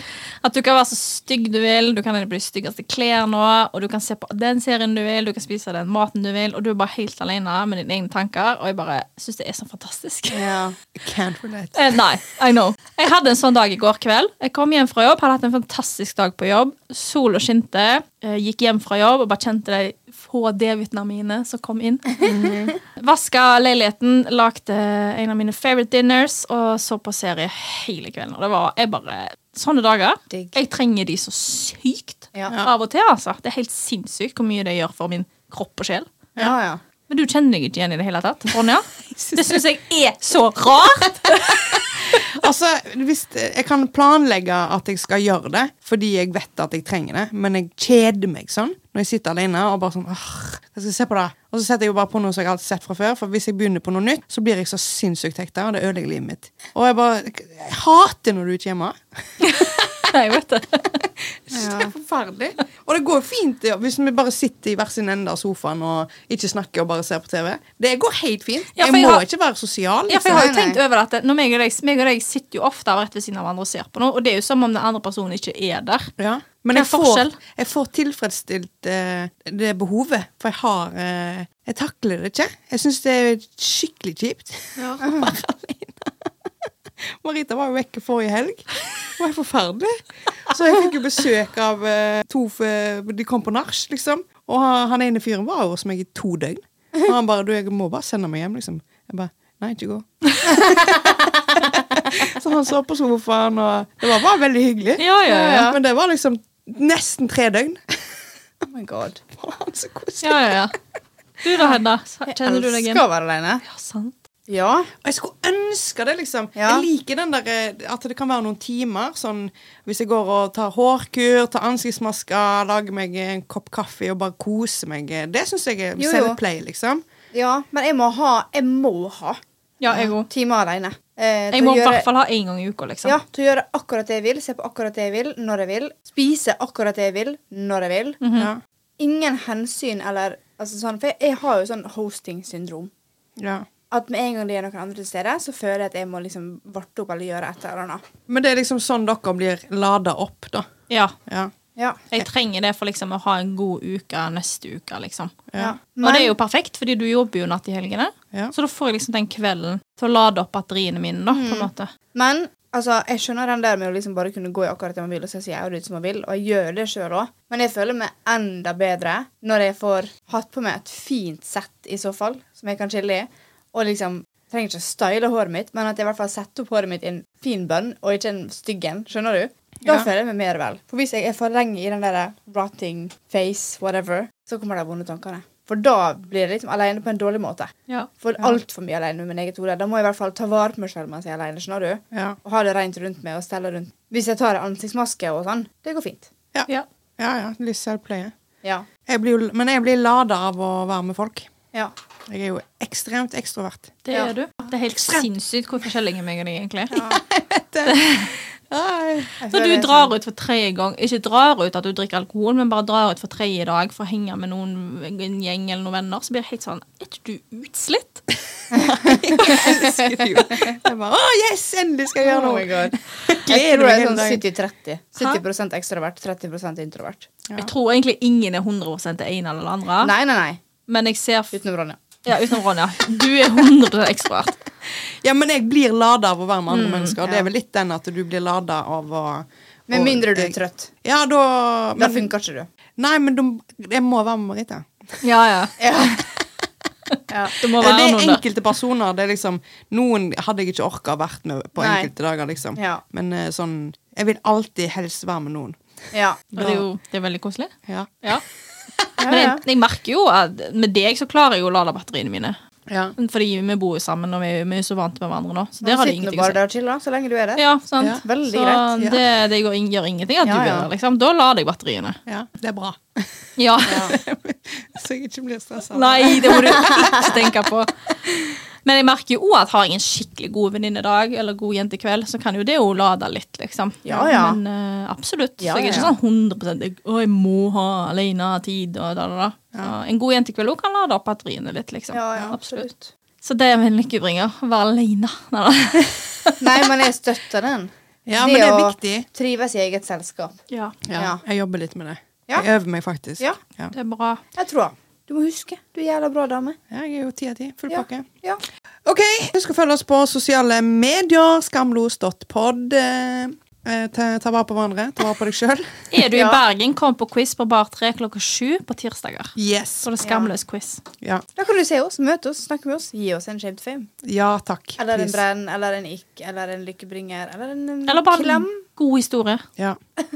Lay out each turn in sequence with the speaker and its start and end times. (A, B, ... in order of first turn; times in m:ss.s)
0:00.4-0:10.5 A
0:10.3-0:12.0 B
0:11.7-0:22.2 A
0:22.2-0:22.7 B
0:22.9-0:36.1 A
0:30.3-0:30.5 C
0:36.4-0:36.8 C
0:37.1-0:42.2 A
0:39.1-0:39.6 B
0:41.5-0:59.8 B
0:59.4-1:01.0 A
1:01.2-1:10.5 B
1:01.5-1:01.9 C
1:08.8-1:09.2 A
1:10.1-1:16.1 A
1:10.3-1:10.8 C
1:16.2-1:26.3 B
1:16.7-1:17.3 A
1:24.8-1:25.0 A
1:25.0-1:25.3 C
1:27.0-1:48.2 B
1:40.6-1:42.3 C
1:45.0-1:45.7 A
1:45.2-1:45.8 C
1:48.7-1:49.2 C
1:49.4-1:50.4 B
1:50.2-1:50.8 A
1:51.4-1:53.0 A
1:52.3-1:53.6 C
1:53.6-1:54.1 A
1:54.5-1:54.9 C
1:55.0-2:07.0 B
1:56.6-1:56.8 C
2:06.0-2:06.4 C
2:07.3-2:09.4 C
2:09.8-2:10.3 A
2:09.9-2:12.0 C
2:11.5-2:13.2 A
2:13.0-2:18.2 C
2:18.2-2:18.5 A
2:18.4-2:18.6 B
2:19.0-2:22.9 C
2:23.4-2:23.6 B
2:23.9-2:28.0 C
2:28.3-2:30.7 B
2:31.3-2:31.5 B
2:32.1-2:35.4 A
2:35.6-2:36.3 C
2:36.0-2:41.9 A
2:41.3-3:16.3 C
3:12.1-3:12.4 B
3:16.5-3:18.3 B
3:19.1-3:21.5 B
3:22.2-3:24.0 B
3:24.0-3:27.1 A
3:25.0-3:25.2 B
3:27.1-3:29.3 B
3:27.8-3:28.3 A
3:29.4-3:30.1 C
3:29.5-3:38.3 A
3:38.7-3:40.8 C
3:38.8-3:44.4 B
3:39.4-3:39.6 A
3:42.2-3:47.3 C
3:47.6-3:50.1 A
3:50.0-3:50.6 C
3:50.9-3:51.5 A
3:51.5-3:52.0 C
3:52.2-3:54.6 A
3:54.9-4:02.3 B
3:56.7-3:57.2 A
3:57.2-3:57.5 C
3:59.9-4:00.9 C
4:02.0-4:02.7 C
4:03.0-4:05.2 B
4:05.2-4:06.2 A
4:05.8-4:06.1 C
4:07.1-4:08.4 A
4:07.3-4:07.6 C
4:07.6-4:15.8 B
4:11.8-4:12.1 C
4:12.8-4:13.0 C
4:16.1-4:16.4 C
4:16.5-4:16.8 B
4:16.6-4:18.4 A
4:17.9-4:18.4 B
4:19.2-4:19.6 C
4:19.2-4:22.6 A
4:22.9-4:23.1 B
4:23.2-4:26.6 A
4:25.8-4:27.6 C
4:27.6-4:32.2 A
4:28.2-4:29.0 C
4:30.4-4:30.9 C
4:32.3-4:37.4 B
4:33.6-4:34.2 A
4:35.9-4:52.9 A
4:44.0-4:44.6 C
4:45.6-4:46.1 C
4:52.1-4:53.1 C
4:53.4-4:56.6 A
4:56.6-5:00.6 C
4:58.3-4:59.2 B
5:00.7-5:01.0 A
5:01.0-5:03.9 B
5:01.2-5:01.4 C
5:03.9-5:04.4 A
5:04.6-5:06.8 C
5:06.9-5:08.3 B
5:07.9-5:08.6 C
5:09.0-5:16.1 B
5:16.1-5:21.0 A
5:16.3-5:16.6 C
5:19.6-5:20.1 B
5:20.2-5:20.5 C
5:21.6-5:24.1 C
5:24.2-5:25.4 B
5:25.0-5:28.8 C
5:28.1-5:29.6 A